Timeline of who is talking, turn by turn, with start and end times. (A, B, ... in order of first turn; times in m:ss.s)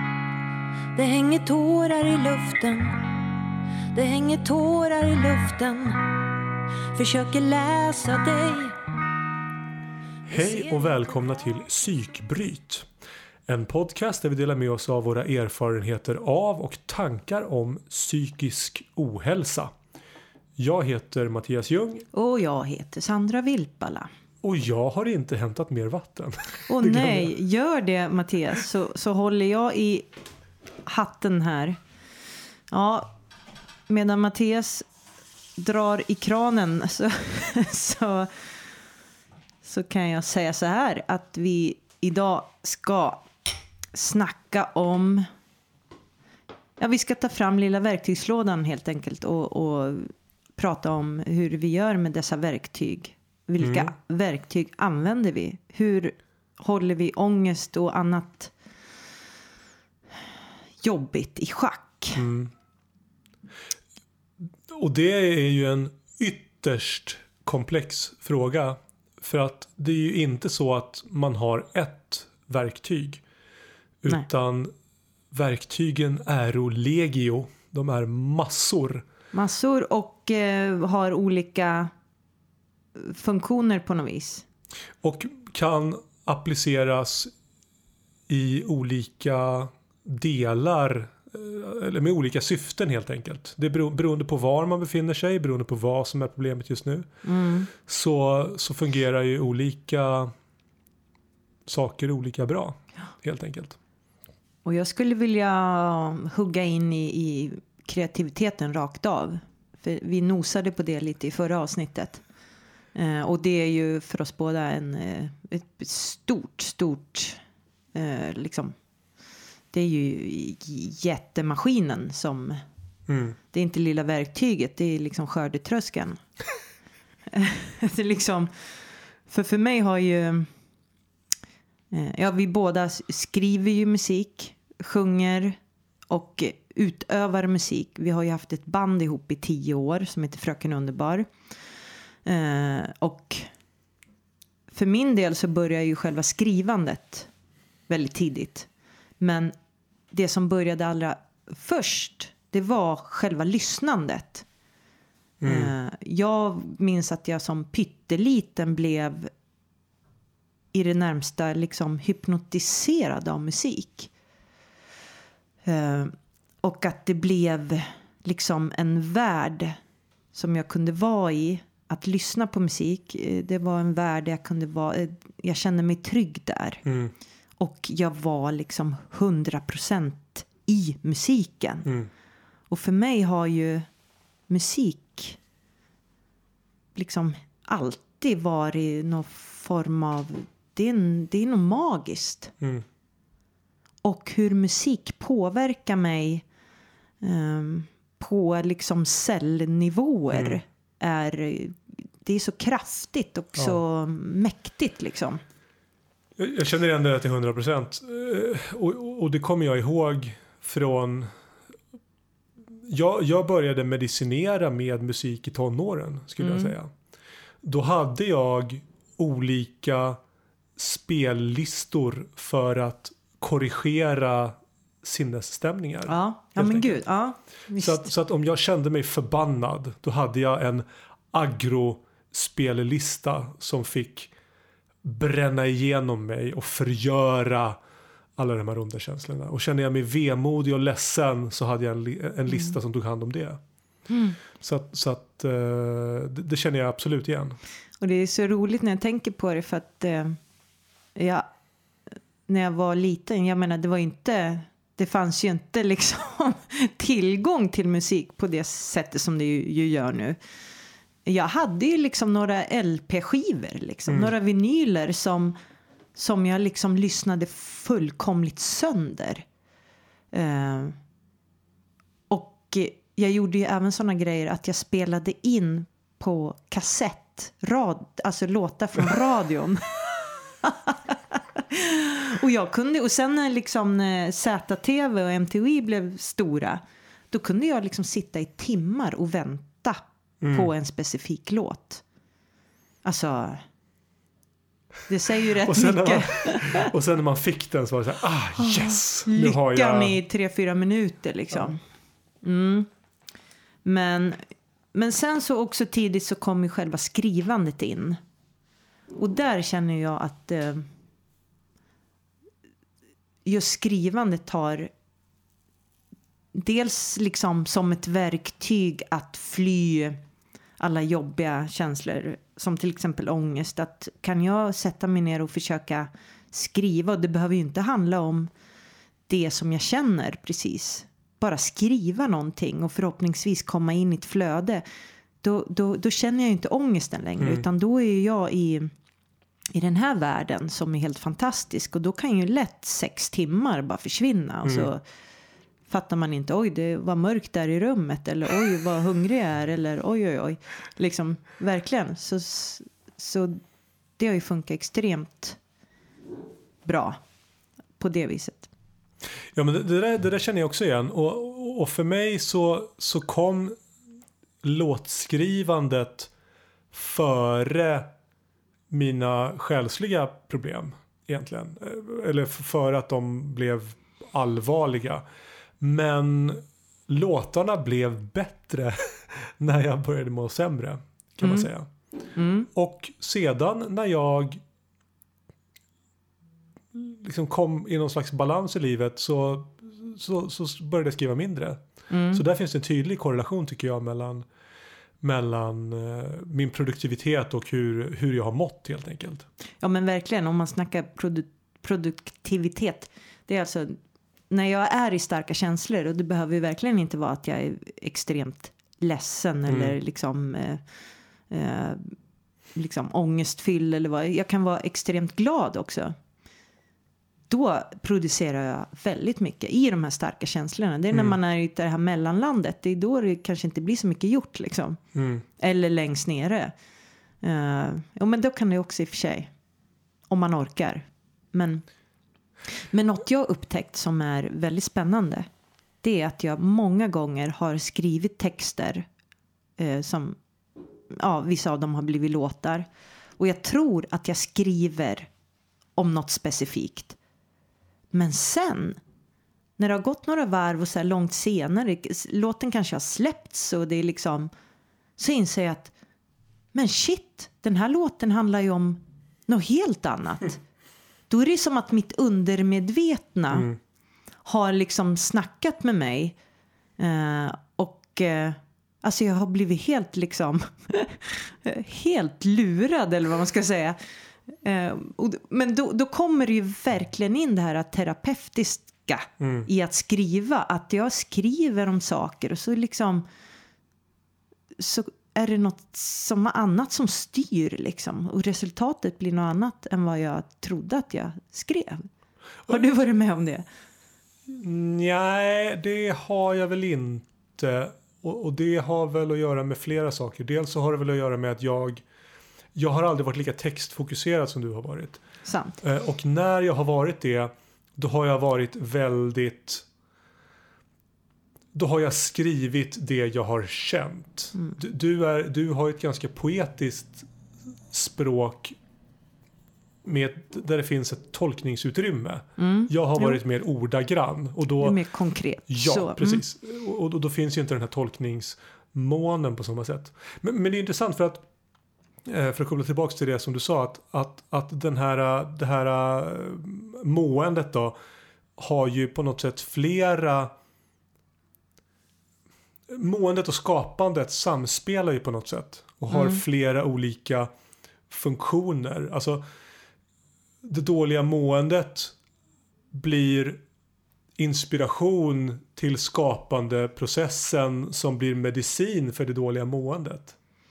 0:01.0-0:03.0 A
0:03.9-0:06.2 A
0:06.9-0:08.8 A
0:10.3-0:12.9 B
0:10.3-0:10.7 A
0:13.5-0:19.7 B
0:20.6-0:22.0 B
0:22.1-0:24.1 A
0:24.4-0:27.3 B
0:26.7-0:30.1 A
0:30.9-0:31.8 A
0:32.7-0:33.1 A
0:33.9-0:34.9 A
0:35.6-0:38.5 A
0:39.6-0:43.2 A
0:43.9-0:45.3 A
0:46.8-0:58.5 A
0:53.6-0:53.9 B
1:00.8-1:02.2 A
1:02.2-1:02.5 B
1:04.7-1:13.2 B
1:14.0-1:14.7 B
1:15.3-1:19.0 B
1:19.3-1:21.9 A
1:23.0-1:24.5 A
1:25.0-1:27.3 B
1:28.3-1:37.1 B
1:37.2-1:37.7 A
1:37.8-1:40.3 B
1:41.7-1:43.8 B
1:44.6-1:52.2 A
1:53.0-1:57.4 A
1:58.0-1:58.8 A
1:59.7-2:02.6 A
2:03.1-2:03.4 B
2:03.5-2:06.2 A
2:07.3-2:08.5 A
2:09.3-2:10.5 A
2:11.9-2:15.6 A
2:16.1-2:21.3 A
2:22.2-2:23.5 A
2:24.7-2:27.3 A
2:27.9-2:28.7 A
2:29.2-2:29.5 A
2:30.1-2:34.5 A
2:35.4-2:35.7 B
2:35.4-2:39.3 A
2:40.7-2:44.1 A
2:45.6-2:49.8 A
2:50.3-2:56.8 A
2:56.8-2:57.1 B
2:57.6-3:01.9 A
3:02.7-3:03.9 A
3:04.5-3:05.4 A
3:07.0-3:12.5 A
3:14.0-3:16.4 A
3:17.2-3:25.4 A
3:20.3-3:20.6 B
3:26.4-3:31.3 B
3:32.8-3:36.9 B
3:36.4-3:36.7 A
3:37.6-3:40.2 B
3:40.8-3:47.0 B
3:46.1-3:48.1 A
3:47.8-3:54.3 B
3:55.0-3:57.8 B
3:58.4-4:03.6 B
4:02.5-4:02.8 A
4:04.1-4:04.4 A
4:04.6-4:07.6 B
4:08.0-4:10.4 A
4:11.2-4:11.5 A
4:12.5-4:20.4 A
4:21.2-4:25.6 A
4:26.2-4:29.4 A
4:30.3-4:31.0 A
4:32.3-4:40.1 A
4:40.6-4:52.0 A
4:50.4-4:50.7 B
4:53.0-4:53.6 A
4:55.1-4:56.9 A
4:55.6-5:00.2 B
4:58.6-5:01.8 A
5:02.4-5:02.9 A
5:03.8-5:04.4 A
5:04.9-5:08.2 A
5:09.2-5:10.9 A
5:13.4-5:14.9 A
5:16.5-5:20.2 A
5:20.8-5:28.5 A
5:29.3-5:34.8 A
5:35.4-5:38.9 A
5:39.8-5:45.0 A
5:44.6-5:44.9 B
5:45.9-5:53.6 A
5:54.2-5:55.6 A
5:56.8-5:57.2 A
5:58.0-5:58.7 A
5:59.5-6:03.8 B
6:04.6-6:06.3 B
6:06.9-6:08.1 B
6:08.9-6:15.2 B
6:15.8-6:21.9 B
6:21.4-6:21.7 A
6:22.4-6:22.7 A
6:22.7-6:24.6 B
6:26.9-6:31.8 B
6:32.1-6:32.4 A
6:32.3-6:34.4 B
6:35.2-6:39.5 B
6:39.8-6:44.0 A
6:44.5-6:50.8 A
6:49.7-6:49.9 B
6:51.5-6:52.2 A
6:52.8-6:56.2 A
6:57.5-7:05.0 A
7:05.1-7:05.4 B
7:05.6-7:06.7 A
7:07.4-7:09.5 A
7:10.3-7:11.8 A
7:12.9-7:15.5 A
7:16.0-7:19.1 A
7:19.8-7:20.4 A
7:21.1-7:22.9 A
7:23.4-7:25.3 A
7:26.0-7:27.2 A
7:28.1-7:29.0 A
7:29.8-7:34.5 A
7:35.2-7:35.9 A
7:36.7-7:40.6 A
7:41.3-7:43.7 A
7:44.4-7:46.4 A
7:47.0-8:03.2 A
7:59.4-7:59.7 B
8:04.8-8:12.1 A
8:12.7-8:13.6 A
8:14.5-8:22.0 B
8:22.8-8:25.2 B
8:25.4-8:25.8 A
8:25.8-8:29.9 B
8:31.7-8:37.3 B
8:37.9-8:38.8 B
8:40.0-8:45.0 B
8:42.6-8:43.4 A
8:44.8-8:46.4 A
8:45.7-8:51.4 B
8:52.3-8:58.0 B
8:58.6-9:00.5 B
9:02.9-9:07.5 B
9:06.1-9:06.4 A
9:08.1-9:09.4 B
9:10.6-9:12.2 B
9:12.9-9:13.6 B
9:14.4-9:20.4 B